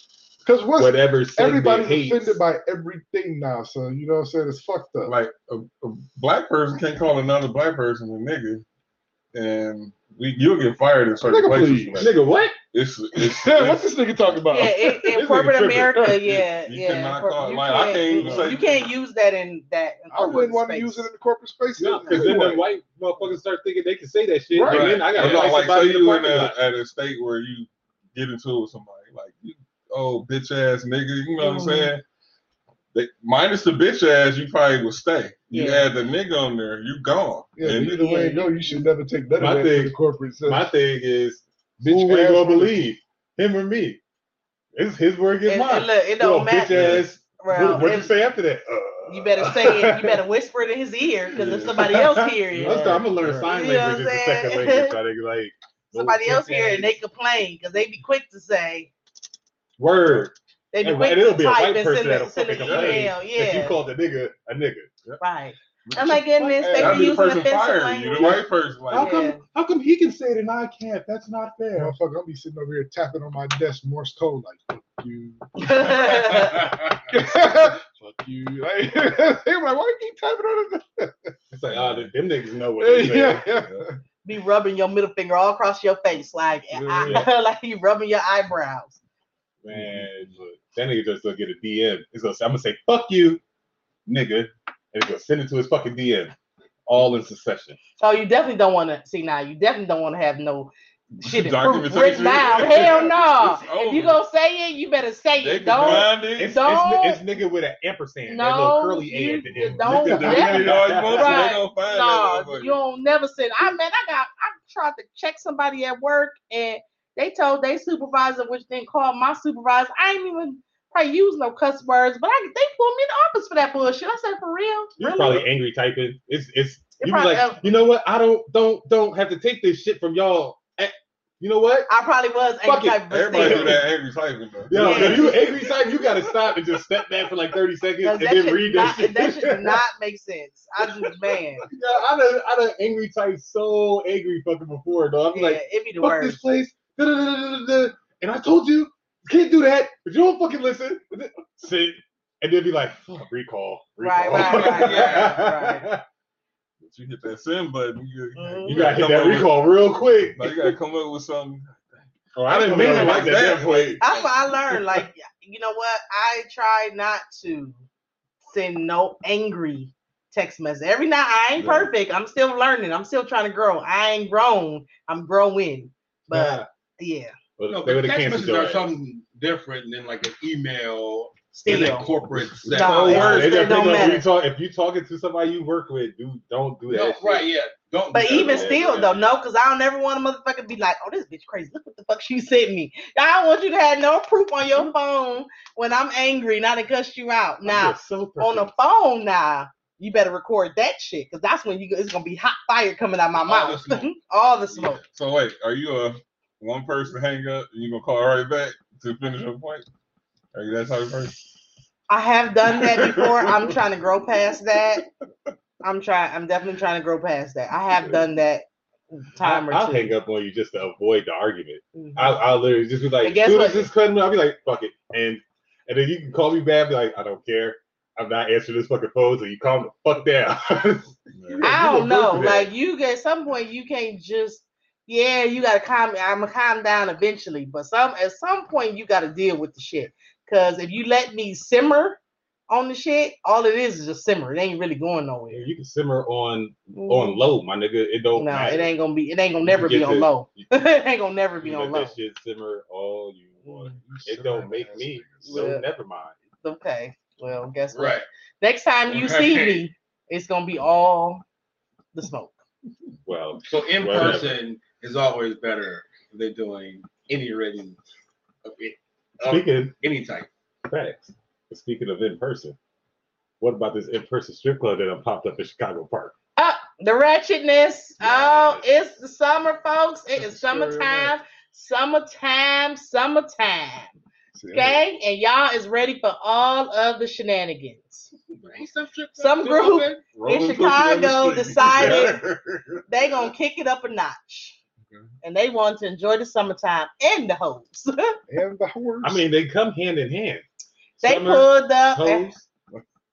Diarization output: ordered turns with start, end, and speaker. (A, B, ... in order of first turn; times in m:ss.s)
0:00.4-0:05.1 A
0:00.8-0:02.4 B
0:05.1-0:08.6 C
0:09.3-0:13.9 C
0:11.2-0:12.1 A
0:12.0-0:12.6 B
0:13.1-0:16.1 A
0:14.5-0:21.1 D
0:15.2-0:15.6 C
0:16.3-0:18.9 C
0:18.2-0:18.5 A
0:20.1-0:22.6 A
0:21.8-0:26.6 B
0:24.5-0:25.4 A
0:24.6-0:32.0 C
0:31.4-0:31.9 D
0:32.9-0:38.1 C
0:35.5-0:35.9 D
0:37.6-0:40.7 A
0:37.8-0:38.6 D
0:39.4-0:44.0 B
0:41.8-0:42.9 A
0:44.7-0:50.2 B
0:45.4-0:48.2 D
0:49.1-0:55.0 D
0:51.4-0:52.0 C
0:51.6-0:57.0 B
0:52.5-0:53.5 A
0:55.9-0:58.9 D
0:59.8-1:04.9 B
1:00.7-1:03.8 D
1:02.6-1:03.1 C
1:05.2-1:09.4 D
1:06.0-1:07.4 A
1:06.8-1:09.2 C
1:08.9-1:11.9 B
1:11.8-1:21.3 A
1:15.6-1:16.7 D
1:21.5-1:23.4 B
1:22.8-1:24.0 A
1:24.2-1:29.0 D
1:26.7-1:27.3 A
1:29.6-1:33.4 B
1:34.1-1:36.3 B
1:36.9-1:37.8 B
1:38.0-1:47.2 D
1:41.2-1:44.2 C
1:45.4-1:46.6 C
1:45.8-1:51.6 B
1:48.3-2:05.4 D
1:49.9-1:52.8 C
2:05.0-2:11.9 B
2:07.0-2:07.6 D
2:11.9-2:13.9 D
2:12.6-2:13.9 B
2:13.1-2:16.1 C
2:14.7-2:19.8 B
2:14.8-2:15.4 D
2:18.0-2:21.7 D
2:21.6-2:36.0 B
2:25.3-2:26.4 D
2:34.0-2:35.9 D
2:34.3-2:35.4 E
2:36.8-2:39.8 C
2:38.4-2:38.9 D
2:38.6-2:40.7 B
2:40.4-2:41.8 C
2:42.4-2:44.0 B
2:42.4-2:44.3 C
2:42.7-2:43.4 D
2:44.0-2:47.8 D
2:48.5-2:57.3 D
2:56.3-2:56.7 B
2:57.6-2:59.0 B
2:57.7-3:04.0 E
3:01.5-3:02.1 D
3:02.6-3:07.5 B
3:02.7-3:04.3 D
3:06.9-3:09.3 E
3:08.1-3:25.0 D
3:08.3-3:08.8 B
3:17.6-3:18.7 B
3:23.4-3:24.1 C
3:24.8-3:29.9 C
3:30.5-3:31.5 C
3:32.1-3:35.0 D
3:32.7-3:33.7 C
3:35.8-3:40.1 D
3:39.4-3:52.7 B
3:42.0-3:42.3 D
3:43.2-3:43.9 D
3:51.3-3:51.8 C
3:51.6-4:05.7 D
4:05.5-4:08.9 B
4:07.0-4:07.4 D
4:08.4-4:12.1 D
4:09.7-4:10.7 B
4:11.6-4:16.3 B
4:13.9-4:15.7 A
4:15.5-4:15.8 D
4:16.6-4:21.4 D
4:17.9-4:18.3 E
4:19.1-4:19.8 E
4:22.1-4:22.6 D
4:23.3-4:24.6 B
4:23.6-4:28.0 E
4:28.6-4:30.5 E
4:29.4-4:29.9 B
4:30.9-4:32.8 B
4:33.6-4:36.3 B
4:36.6-4:44.1 D
4:38.2-4:38.9 B
4:40.3-4:41.3 A
4:44.5-4:45.0 A
4:44.7-4:48.3 D
4:48.6-4:50.2 E
4:49.4-4:52.4 D
4:50.2-4:53.5 C
4:53.1-4:54.8 D
4:55.4-4:58.4 D
4:58.5-4:59.4 A
4:59.2-5:00.6 B
5:01.2-5:02.6 B
5:01.2-5:02.5 D